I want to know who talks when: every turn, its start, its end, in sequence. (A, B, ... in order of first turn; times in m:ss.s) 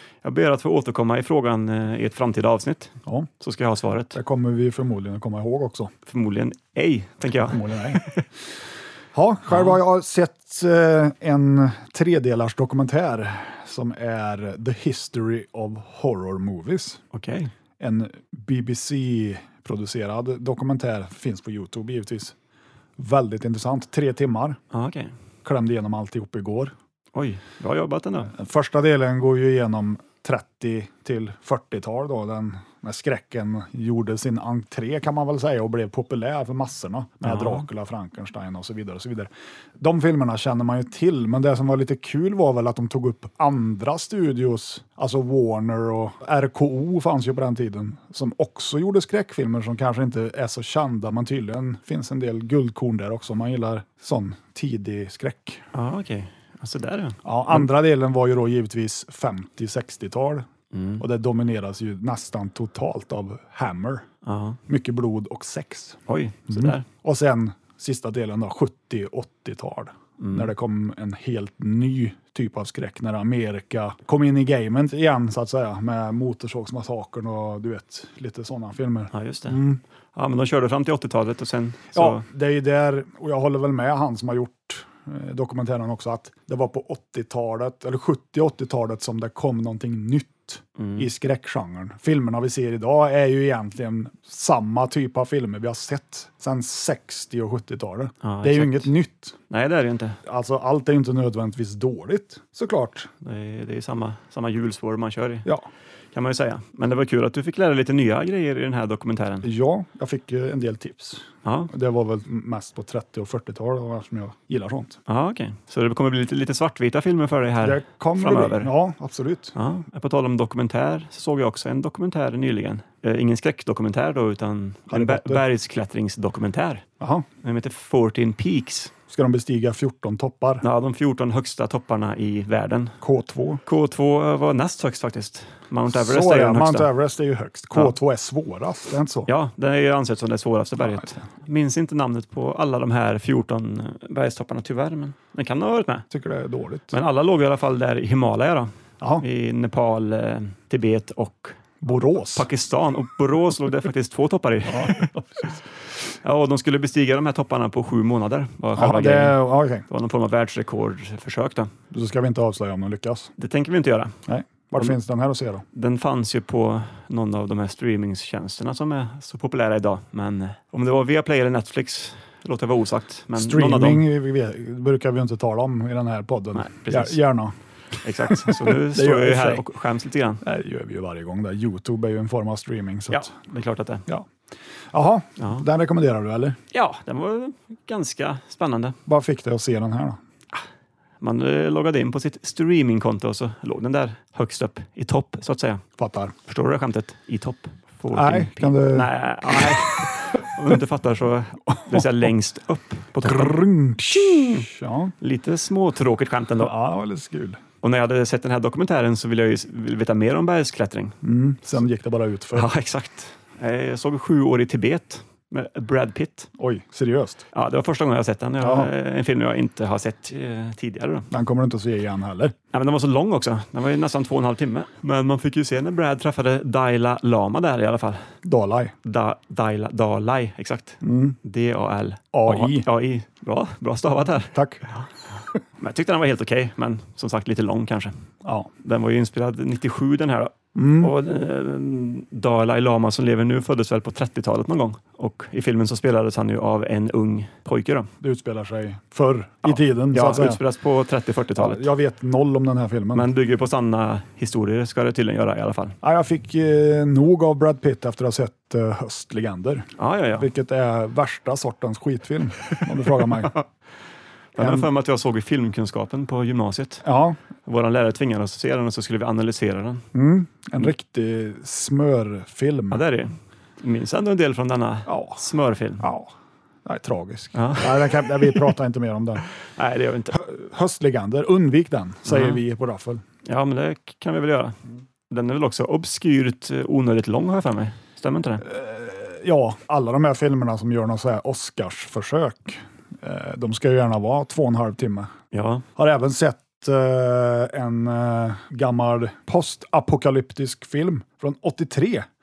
0:00.2-0:04.2 A
0:04.1-0:05.9 B
0:06.1-0:08.2 A
0:07.5-0:08.0 B
0:09.1-0:17.0 B
0:09.5-0:09.8 A
0:17.1-0:17.5 A
0:17.8-0:22.3 B
0:23.0-0:24.6 B
0:24.7-0:25.1 A
0:25.4-0:26.7 B
0:27.1-0:28.3 A
0:28.3-0:55.6 B
0:37.2-0:37.6 A
0:55.7-0:57.7 A
0:57.2-1:00.5 B
1:00.7-1:01.0 A
1:01.0-1:04.1 B
1:04.2-1:04.6 A
1:04.7-1:06.0 B
1:06.1-1:06.8 A
1:06.5-1:19.8 B
1:10.2-1:10.5 A
1:19.1-1:19.6 A
1:20.1-1:22.2 A
1:21.9-1:39.3 B
1:30.8-1:31.1 A
1:38.2-1:38.9 A
1:39.5-1:40.2 A
1:40.2-1:43.1 B
1:43.2-1:45.5 A
1:46.1-1:49.5 A
1:49.4-1:55.0 B
1:51.4-1:51.7 A
1:55.1-1:58.7 A
1:57.6-1:59.5 B
1:59.5-2:06.8 A
2:04.9-2:05.4 B
2:07.0-2:07.2 B
2:07.4-2:08.9 A
2:09.1-2:10.6 B
2:10.6-2:13.0 A
2:13.0-2:13.6 B
2:13.6-2:16.9 A
2:15.9-2:19.3 B
2:19.3-2:26.1 A
2:20.8-2:21.2 B
2:26.1-2:27.0 B
2:26.9-2:31.6 A
2:31.8-2:32.5 B
2:32.3-2:35.1 A
2:34.7-2:35.6 B
2:36.2-2:41.7 A
2:38.7-2:39.8 B
2:41.9-2:43.3 B
2:43.4-2:44.2 A
2:44.3-2:45.6 B
2:45.7-2:54.0 A
2:53.3-2:57.5 B
2:56.5-2:57.2 A
2:58.0-3:00.4 A
2:58.2-2:59.7 B
3:00.4-3:03.3 B
3:03.1-3:04.1 A
3:04.9-3:06.6 B
3:05.4-3:05.6 A
3:06.7-3:09.0 A
3:09.1-3:10.2 B
3:11.2-3:15.8 A
3:16.0-3:16.3 B
3:16.4-3:24.6 A
3:18.1-3:20.7 B
3:21.7-3:22.1 B
3:23.2-3:25.1 B
3:25.2-3:26.7 A
3:26.6-3:27.6 B
3:27.8-3:31.2 A
3:31.2-3:32.7 B
3:32.5-3:36.5 A
3:36.6-3:37.4 B
3:37.5-3:41.3 A
3:38.6-3:38.9 B
3:41.3-3:42.5 B
3:42.7-3:48.3 A
3:48.4-3:48.9 B
3:49.0-3:55.0 A
3:51.0-3:51.4 B
3:52.3-3:52.9 B
3:54.5-3:54.8 B
3:55.8-3:58.2 A
3:58.4-3:58.7 B
3:58.8-4:08.1 A
4:00.7-4:01.1 B
4:08.2-4:10.6 B
4:09.6-4:11.9 A
4:11.6-4:13.3 B
4:13.1-4:16.0 A
4:16.0-4:23.5 B
4:20.0-4:20.5 A
4:23.1-4:23.6 A
4:24.5-4:27.0 A
4:24.6-4:24.9 B
4:27.0-4:27.4 B
4:27.6-4:30.0 A
4:30.1-4:33.0 B
4:32.9-4:36.1 A
4:35.1-4:35.4 B
4:36.0-4:36.3 B
4:36.8-4:39.4 B
4:37.5-4:38.7 A
4:39.6-4:40.4 A
4:40.3-4:43.2 B
4:42.3-4:42.6 A
4:43.4-4:48.6 A
4:48.6-4:55.3 B
4:55.5-4:55.8 A
4:56.0-5:02.3 B